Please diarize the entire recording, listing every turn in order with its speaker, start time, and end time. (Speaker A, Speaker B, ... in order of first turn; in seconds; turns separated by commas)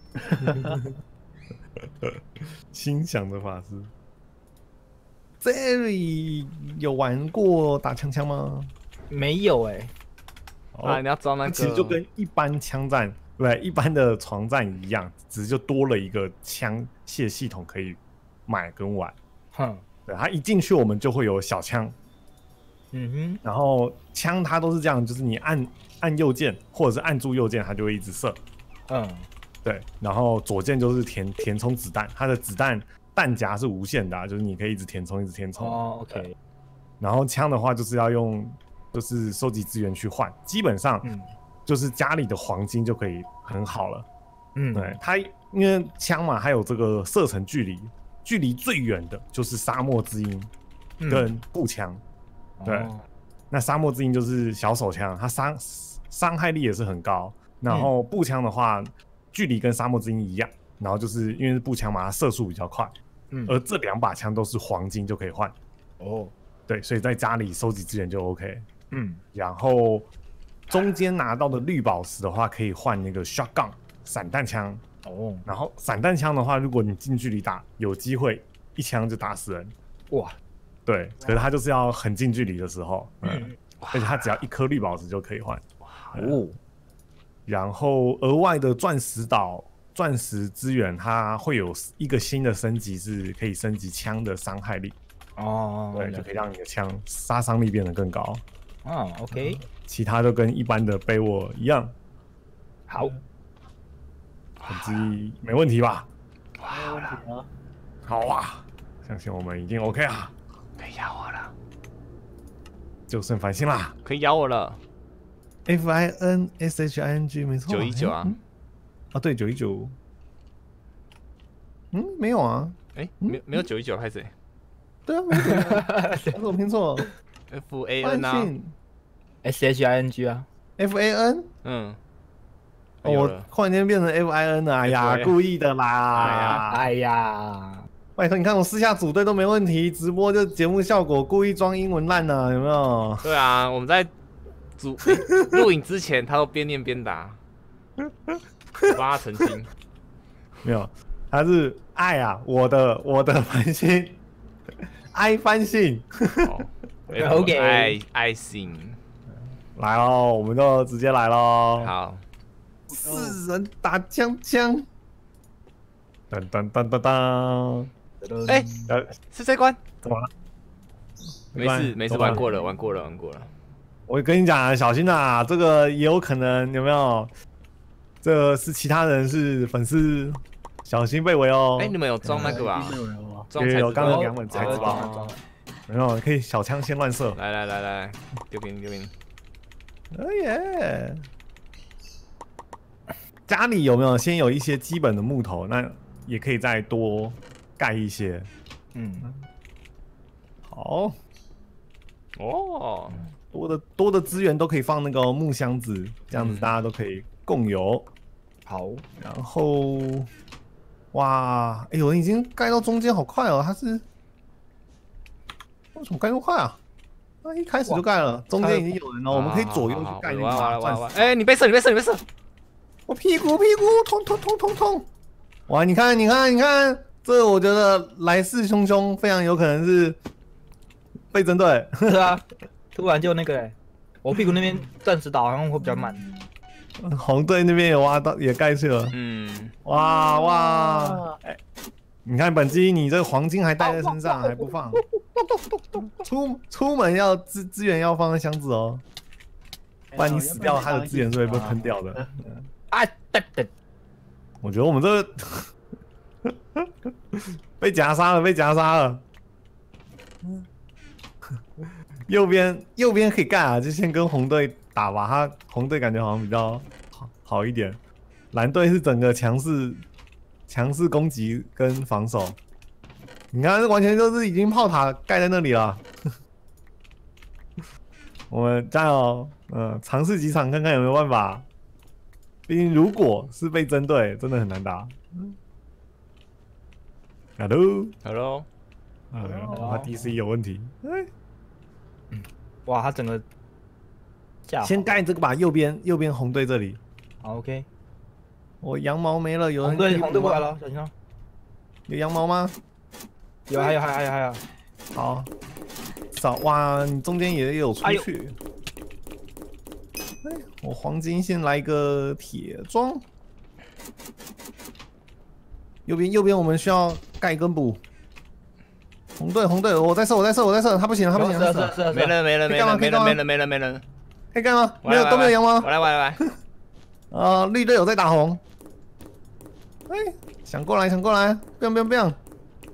Speaker A: 0.3-0.8, Speaker B: 0.4-0.8, Speaker B: 2.0-3.9, Speaker B: 5.4-8.7, Speaker C: 9.1-9.9, Speaker B: 10.7-19.2, Speaker D: 10.8-12.0, Speaker C: 19.5-19.8, Speaker B: 20.1-21.9, Speaker C: 22.9-23.4, Speaker B: 23.4-28.4, Speaker C: 28.9-29.3, Speaker B: 29.6-36.2, Speaker C: 35.6-36.3, Speaker B: 37.0-41.1, Speaker C: 41.0-41.3, Speaker B: 41.7-44.1, Speaker C: 44.6-45.0, Speaker B: 44.7-50.5, Speaker C: 51.0-51.3, Speaker B: 51.1-52.0, Speaker C: 52.6-53.0, Speaker B: 52.6-52.9, Speaker B: 53.5-62.9, Speaker C: 63.3-63.6, Speaker B: 63.5-65.5, Speaker C: 66.0-66.3, Speaker B: 66.7-68.7, Speaker C: 68.9-69.2, Speaker B: 69.3-70.1, Speaker B: 70.7-74.8, Speaker C: 75.0-75.5, Speaker B: 75.5-79.7, Speaker C: 80.1-80.4, Speaker B: 80.9-86.6, Speaker C: 83.2-83.5, Speaker D: 83.8-84.2, Speaker D: 85.8-86.3, Speaker B: 87.5-95.0, Speaker C: 95.4-96.3, Speaker B: 95.9-98.4, Speaker C: 98.8-99.6, Speaker B: 99.3-102.0, Speaker C: 102.9-103.1, Speaker D: 104.6-105.1, Speaker B: 104.7-106.1, Speaker D: 106.6-107.2, Speaker A: 106.7-107.5, Speaker B: 108.0-110.4, Speaker D: 110.8-111.5, Speaker B: 113.1-114.0, Speaker D: 114.0-114.8, Speaker B: 115.7-118.4, Speaker D: 117.7-118.4, Speaker B: 119.1-120.0, Speaker B: 121.9-123.7, Speaker D: 123.0-124.3, Speaker B: 125.1-127.1, Speaker C: 125.3-126.4, Speaker D: 127.5-128.5, Speaker B: 128.0-128.7, Speaker C: 129.4-130.5, Speaker B: 130.8-131.5, Speaker D: 131.6-132.0, Speaker D: 133.0-133.5, Speaker B: 133.0-136.8, Speaker D: 134.8-135.3, Speaker D: 136.2-136.6, Speaker C: 136.5-137.9, Speaker B: 138.2-143.3, Speaker D: 143.2-144.1, Speaker D: 144.8-147.4, Speaker B: 148.0-148.9, Speaker D: 148.8-149.7, Speaker B: 150.6-154.2, Speaker B: 155.1-156.6, Speaker D: 156.4-159.0, Speaker C: 157.2-158.0, Speaker B: 159.7-161.9, Speaker D: 161.8-162.2, Speaker A: 162.9-163.4, Speaker B: 162.9-164.9, Speaker B: 166.3-167.9, Speaker C: 168.2-168.9, Speaker B: 168.9-169.2, Speaker D: 169.3-169.8, Speaker B: 170.0-170.3, Speaker B: 171.5-172.5, Speaker D: 171.5-173.5, Speaker B: 174.1-177.3, Speaker B: 178.2-182.5, Speaker D: 181.8-185.3, Speaker C: 182.3-182.6, Speaker A: 182.3-183.5, Speaker B: 183.6-185.0, Speaker C: 184.0-185.4, Speaker B: 185.9-187.4, Speaker D: 187.3-189.1, Speaker B: 190.1-191.2, Speaker B: 193.5-198.5, Speaker C: 198.9-199.3, Speaker B: 200.7-201.2, Speaker D: 202.4-203.3, Speaker B: 203.4-208.1, Speaker D: 206.4-206.7, Speaker C: 208.7-209.0, Speaker B: 209.2-210.3, Speaker B: 211.1-214.1, Speaker B: 215.9-216.8, Speaker B: 217.4-221.2, Speaker C: 218.6-218.9, Speaker D: 219.3-222.2, Speaker B: 223.1-225.1, Speaker B: 225.7-230.2, Speaker B: 231.3-232.2, Speaker C: 232.1-232.4, Speaker C: 232.9-236.3, Speaker B: 237.0-239.2, Speaker D: 239.1-239.7, Speaker B: 239.8-241.6, Speaker A: 240.0-241.4, Speaker B: 242.2-245.0, Speaker C: 243.8-246.1, Speaker B: 246.0-249.0, Speaker A: 250.1-252.3, Speaker B: 250.2-252.7, Speaker C: 252.9-253.7, Speaker B: 254.6-255.7, Speaker B: 256.4-259.2, Speaker B: 261.5-268.0, Speaker B: 268.5-270.0, Speaker B: 270.7-272.6, Speaker B: 273.5-276.1, Speaker B: 278.5-281.7, Speaker B: 282.7-285.6, Speaker B: 287.6-288.1, Speaker D: 288.2-288.7, Speaker B: 289.3-291.3, Speaker A: 289.4-290.3, Speaker C: 289.7-290.1, Speaker C: 292.3-293.4, Speaker C: 294.7-295.1, Speaker B: 294.8-297.0, Speaker C: 297.4-297.9, Speaker B: 298.8-300.7, Speaker C: 299.8-301.1, Speaker B: 302.1-302.8, Speaker C: 303.7-304.6, Speaker B: 305.1-305.5, Speaker B: 306.3-308.6, Speaker B: 310.4-313.2, Speaker B: 316.1-318.0, Speaker B: 319.4-322.0, Speaker C: 321.3-322.4, Speaker D: 322.1-324.0, Speaker B: 322.6-323.4, Speaker B: 324.5-326.4, Speaker D: 325.0-326.4, Speaker B: 327.3-328.6, Speaker B: 330.1-332.4